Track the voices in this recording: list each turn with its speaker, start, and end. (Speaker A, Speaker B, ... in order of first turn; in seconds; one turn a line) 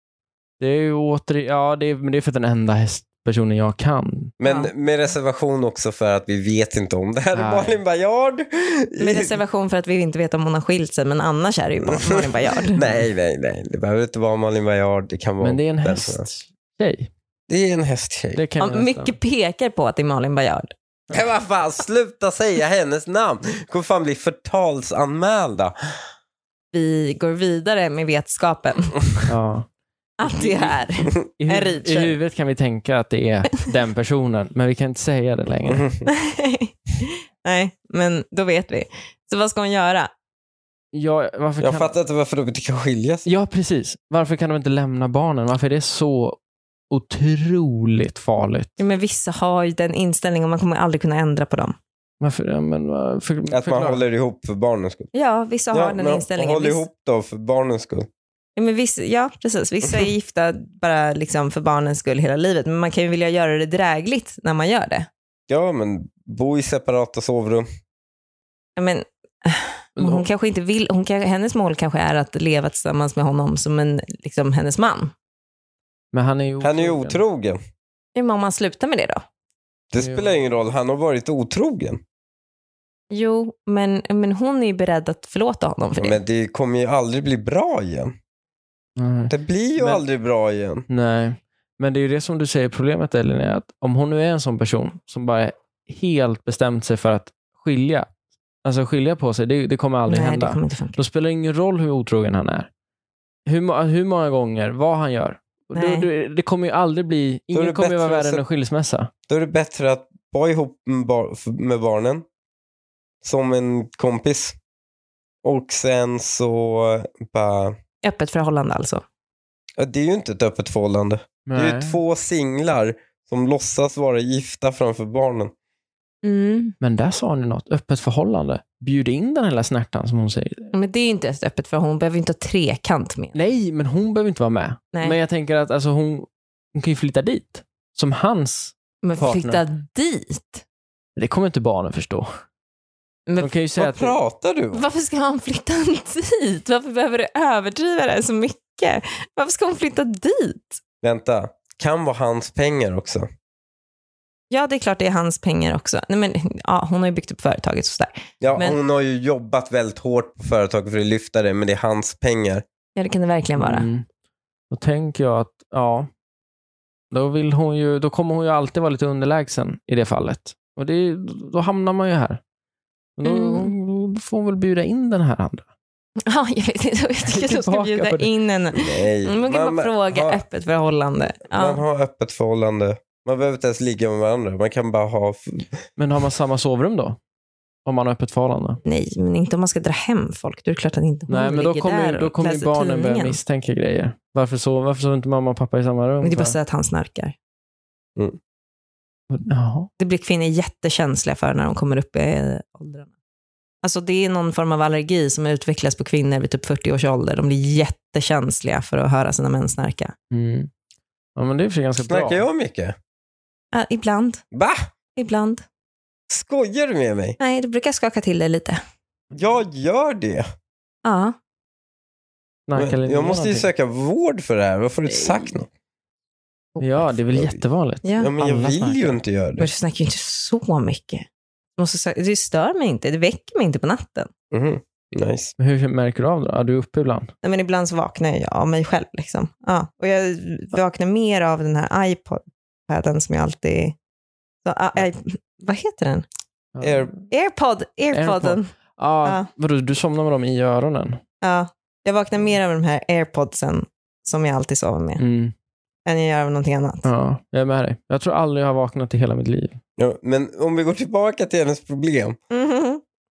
Speaker A: 0.6-4.3
Speaker B: 4.4-9.3
Speaker C: 4.4-4.7
Speaker A: 7.3-7.8
Speaker C: 9.0-12.8
Speaker B: 11.8-16.2
Speaker A: 15.4-17.1
Speaker B: 17.5-18.4
Speaker A: 18.3-19.1
Speaker C: 18.6-20.7
Speaker B: 21.1-25.7
Speaker C: 26.7-29.0
Speaker A: 29.3-29.7
Speaker C: 30.2-32.2
Speaker A: 30.3-30.7
Speaker A: 31.2-35.8
Speaker B: 35.7-36.0
Speaker C: 36.1-40.1
Speaker A: 40.9-41.9
Speaker B: 41.6-43.3
Speaker A: 43.2-46.4
Speaker A: 46.9-48.8
Speaker C: 48.8-51.7
Speaker A: 52.2-54.0
Speaker B: 53.5-55.1
Speaker C: 55.1-56.8
Speaker B: 55.7-58.1
Speaker C: 58.5-65.1
Speaker B: 65.5-67.7
Speaker C: 68.8-75.1
Speaker A: 70.0-70.2
Speaker A: 76.1-77.2
Speaker B: 76.6-77.6
Speaker C: 78.1-79.2
Speaker B: 79.9-82.0
Speaker A: 80.0-80.3
Speaker C: 83.1-86.2
Speaker B: 86.0-88.1
Speaker A: 89.0-90.0
Speaker B: 89.3-90.8
Speaker A: 90.9-98.1
Speaker A: 98.6-102.7
Speaker C: 100.1-101.0
Speaker A: 103.5-109.1
Speaker C: 105.7-106.1
Speaker B: 107.5-108.4
Speaker B: 109.3-112.2
Speaker B: 113.2-114.5
Speaker B: 115.4-117.7
Speaker C: 118.0-119.0
Speaker B: 119.8-125.5
Speaker A: 121.5-122.0
Speaker C: 126.2-126.7
Speaker A: 126.8-130.7
Speaker C: 130.7-133.3
Speaker A: 133.3-139.6
Speaker C: 139.0-140.6
Speaker A: 141.2-142.3
Speaker A: 143.4-144.2
Speaker B: 143.8-144.8
Speaker C: 144.7-150.8
Speaker B: 151.0-153.3
Speaker C: 154.5-158.8
Speaker B: 158.4-162.6
Speaker C: 162.9-163.9
Speaker A: 163.6-164.0
Speaker A: 164.7-166.1
Speaker A: 167.1-172.4
Speaker A: 173.2-175.7
Speaker C: 173.2-173.7
Speaker C: 176.2-181.8
Speaker A: 177.2-178.3
Speaker B: 178.7-180.4
Speaker B: 181.5-185.7
Speaker A: 186.0-187.2
Speaker A: 187.8-188.8
Speaker C: 188.8-193.4
Speaker A: 191.3-196.6
Speaker C: 196.2-197.3
Speaker A: 199.3-199.9
Speaker C: 200.0-203.1
Speaker C: 203.8-210.1
Speaker A: 210.3-210.7
Speaker A: 211.3-212.4
Speaker B: 212.1-212.9
Speaker C: 213.7-214.4
Speaker B: 214.5-214.8
Speaker C: 215.2-215.6
Speaker B: 216.3-217.4
Speaker C: 217.4-218.8
Speaker B: 219.3-220.4
Speaker C: 221.0-221.3
Speaker A: 222.7-223.7
Speaker B: 222.8-225.7
Speaker C: 226.7-227.0
Speaker A: 226.8-229.2
Speaker B: 227.3-227.6
Speaker C: 228.0-228.3
Speaker B: 228.2-229.7
Speaker C: 229.6-234.3
Speaker B: 234.5-235.5
Speaker A: 235.6-237.3
Speaker C: 237.4-243.9
Speaker C: 244.6-246.2
Speaker A: 246.7-247.1
Speaker B: 246.8-247.1
Speaker C: 247.3-248.7
Speaker A: 248.1-251.2
Speaker C: 251.4-255.2
Speaker A: 255.2-255.5
Speaker C: 256.1-257.1
Speaker A: 257.0-259.8
Speaker B: 260.0-262.4
Speaker C: 262.5-263.0